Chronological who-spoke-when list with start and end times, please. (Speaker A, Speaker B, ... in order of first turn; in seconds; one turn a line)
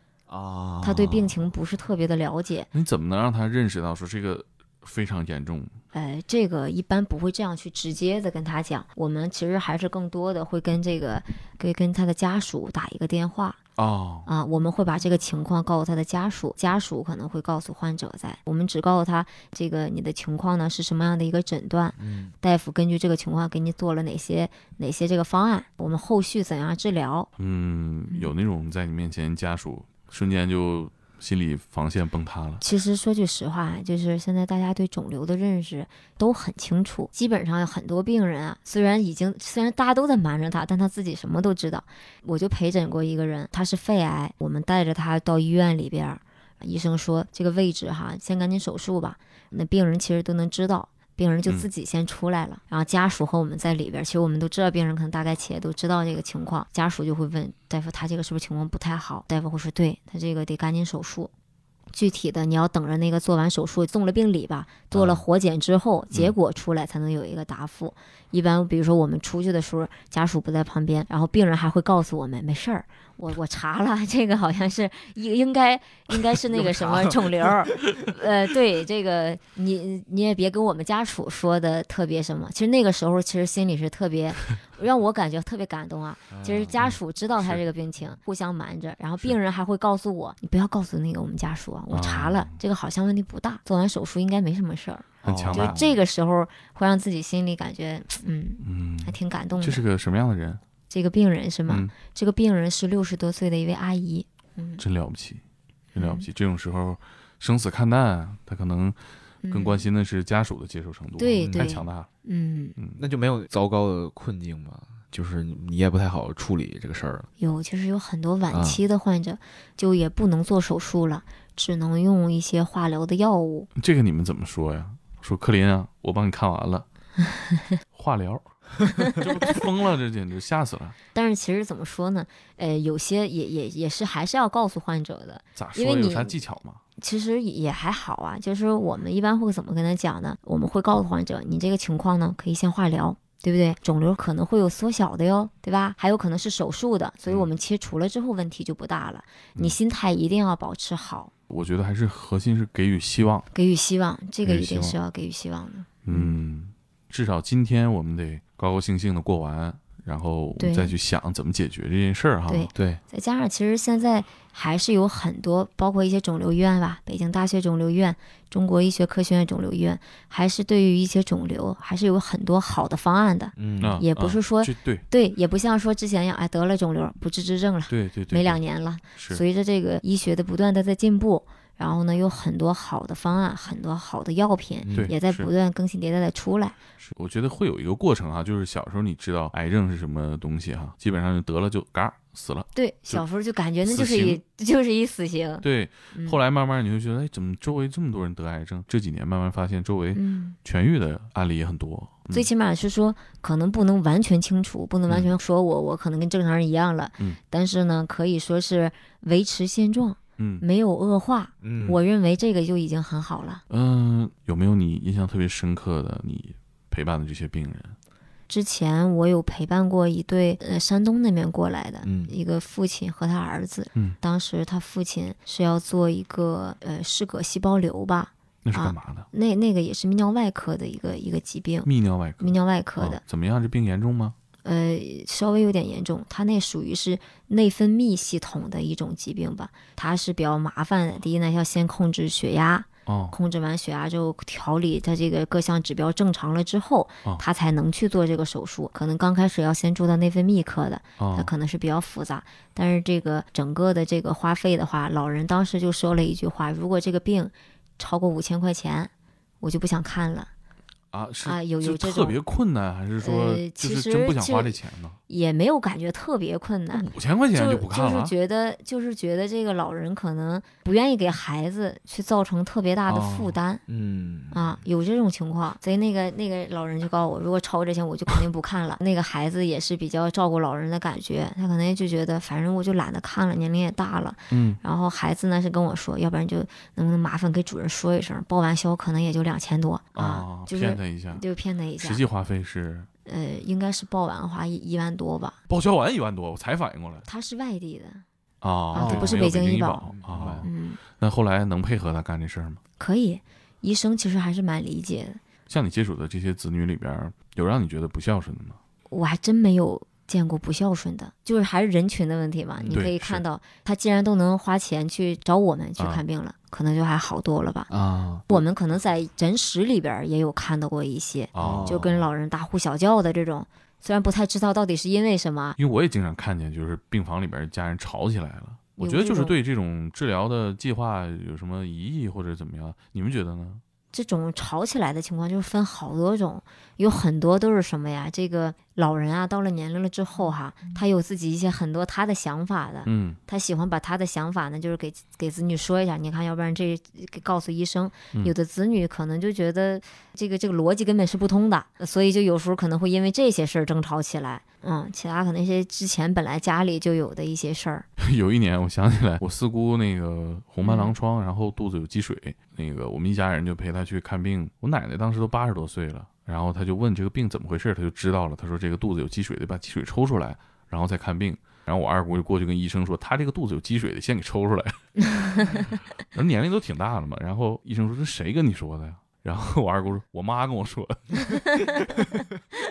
Speaker A: 0.3-1.4
Speaker B: 0.8-2.7
Speaker C: 2.7-5.8
Speaker B: 5.9-13.6
Speaker C: 13.8-14.3
Speaker B: 14.3-27.3
Speaker A: 22.0-22.3
Speaker C: 27.4-32.6
Speaker B: 32.6-61.3
Speaker B: 61.9-99.8
Speaker A: 76.5-77.4
Speaker A: 86.3-86.9
Speaker C: 91.9-92.6
Speaker C: 95.2-95.8
Speaker A: 95.2-95.9
Speaker C: 98.6-100.6
Speaker B: 100.9-104.8
Speaker C: 104.8-105.4
Speaker C: 105.9-109.0
Speaker B: 106.0-106.3
Speaker B: 109.4-109.9
Speaker C: 109.5-112.1
Speaker B: 111.2-112.8
Speaker A: 111.4-111.8
Speaker A: 113.0-117.3
Speaker B: 117.4-123.7
Speaker A: 118.5-118.8
Speaker C: 123.8-126.8
Speaker C: 127.9-131.0
Speaker B: 131.1-136.4
Speaker C: 135.6-136.8
Speaker B: 137.0-151.3
Speaker C: 151.5-153.5
Speaker B: 153.5-156.4
Speaker C: 154.4-155.0
Speaker C: 156.1-162.7
Speaker B: 160.6-160.9
Speaker B: 162.5-186.8
Speaker A: 173.6-174.0
Speaker C: 173.8-175.1
Speaker C: 177.9-178.6
Speaker C: 179.2-179.4
Speaker A: 184.8-185.1
Speaker C: 184.9-185.5
Speaker C: 187.0-193.2
Speaker B: 192.8-196.4
Speaker C: 193.8-194.4
Speaker C: 195.6-202.5
Speaker B: 200.2-200.6
Speaker B: 202.3-213.6
Speaker C: 210.4-210.6
Speaker A: 211.6-212.0
Speaker C: 213.7-218.0
Speaker B: 218.5-231.9
Speaker A: 222.0-222.3
Speaker C: 228.6-229.3
Speaker C: 231.8-234.3
Speaker B: 232.4-233.2
Speaker B: 234.6-259.1
Speaker C: 243.1-243.3
Speaker C: 251.2-251.5
Speaker B: 259.6-260.5
Speaker C: 261.1-265.2
Speaker B: 261.4-262.4
Speaker B: 263.2-273.8
Speaker C: 266.9-268.3
Speaker C: 273.1-273.6
Speaker A: 273.9-274.8
Speaker B: 274.5-292.2
Speaker C: 284.5-284.8
Speaker C: 290.1-291.4
Speaker C: 292.0-293.1
Speaker B: 293.3-295.6
Speaker C: 295.7-297.3
Speaker B: 297.3-298.2
Speaker C: 298.6-302.8
Speaker B: 298.9-301.0
Speaker A: 299.0-299.4
Speaker A: 300.2-300.7
Speaker B: 303.0-305.4
Speaker C: 305.7-308.8
Speaker B: 309.1-317.9
Speaker A: 312.8-313.1
Speaker C: 312.9-313.4
Speaker C: 316.0-316.2
Speaker A: 317.9-318.6
Speaker B: 318.5-325.8
Speaker C: 321.6-322.1
Speaker A: 321.6-322.3
Speaker C: 325.8-333.8
Speaker B: 329.0-329.5
Speaker B: 334.1-358.1
Speaker C: 343.1-343.4
Speaker C: 358.2-382.1
Speaker B: 360.8-361.1
Speaker B: 375.4-375.9